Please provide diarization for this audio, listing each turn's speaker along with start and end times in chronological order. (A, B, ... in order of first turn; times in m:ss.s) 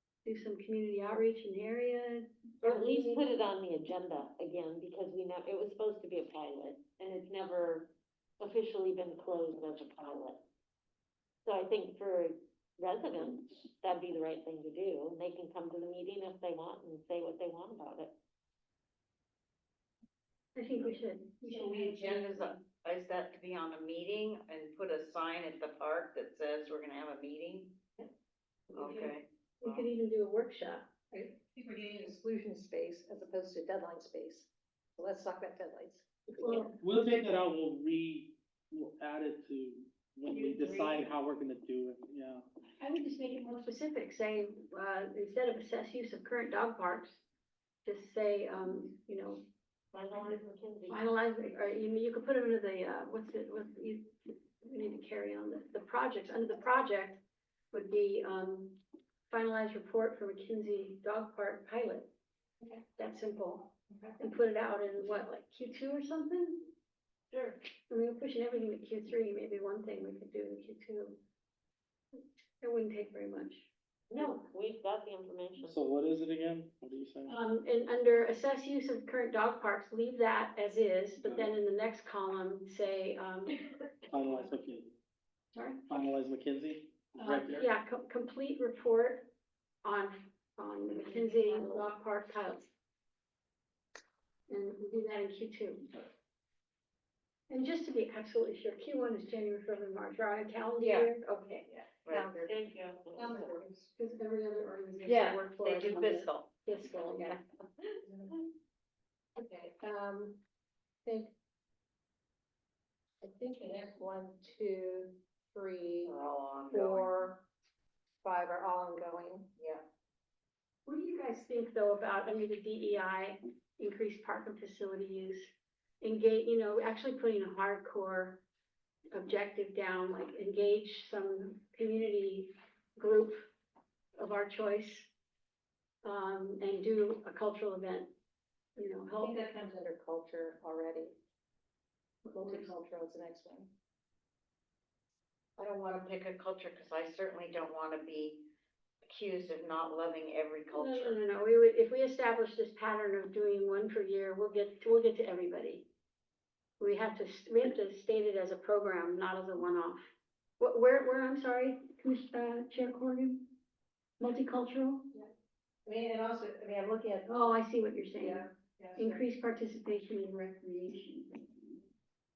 0:00.2-0:03.2 A
0:02.6-0:10.4 B
0:11.4-0:18.1 B
0:20.5-0:22.6 A
0:21.4-0:27.8 C
0:28.7-0:30.9 A
0:28.7-0:29.9 C
0:31.1-0:36.7 D
0:36.4-0:36.7 A
0:36.8-0:42.5 E
0:42.8-0:47.2 A
0:47.8-0:49.4 A
0:49.9-0:51.0 B
0:50.9-0:57.2 A
0:57.7-0:58.8 A
0:59.3-1:02.1 A
1:03.0-1:06.7 A
1:03.9-1:04.2 D
1:07.3-1:07.6 B
1:07.9-1:11.2 A
1:12.6-1:13.7 A
1:14.1-1:15.8 B
1:15.6-1:17.4 E
1:17.2-1:24.4 A
1:21.2-1:21.5 E
1:24.1-1:24.9 E
1:25.5-1:25.8 A
1:25.9-1:27.7 E
1:27.1-1:29.3 A
1:29.8-1:32.7 A
1:31.2-1:31.8 B
1:34.5-1:36.0 A
1:37.5-1:41.6 A
1:40.8-1:41.2 C
1:41.7-1:42.6 D
1:42.0-1:42.4 C
1:42.2-1:43.6 B
1:43.1-1:43.9 D
1:44.0-1:47.4 A
1:45.0-1:46.5 C
1:49.4-1:50.4 D
1:51.0-1:51.3 D
1:53.2-1:56.2 D
1:56.0-1:57.2 C
1:56.7-1:57.4 D
1:58.2-1:59.5 D
1:59.6-1:59.8 C
2:00.8-2:08.4 A
2:09.1-2:13.5 A
2:14.1-2:15.1 A
2:16.0-2:18.1 A
2:18.8-2:19.4 A
2:19.2-2:21.2 D
2:22.2-2:23.7 D
2:22.4-2:22.7 A
2:25.6-2:28.4 C
2:29.0-2:31.2 C
2:30.7-2:35.9 A
2:36.8-2:40.0 A
2:40.6-2:43.5 A
2:44.2-2:45.1 A
2:45.8-2:47.5 D
2:47.2-2:51.8 A
2:48.2-2:49.2 D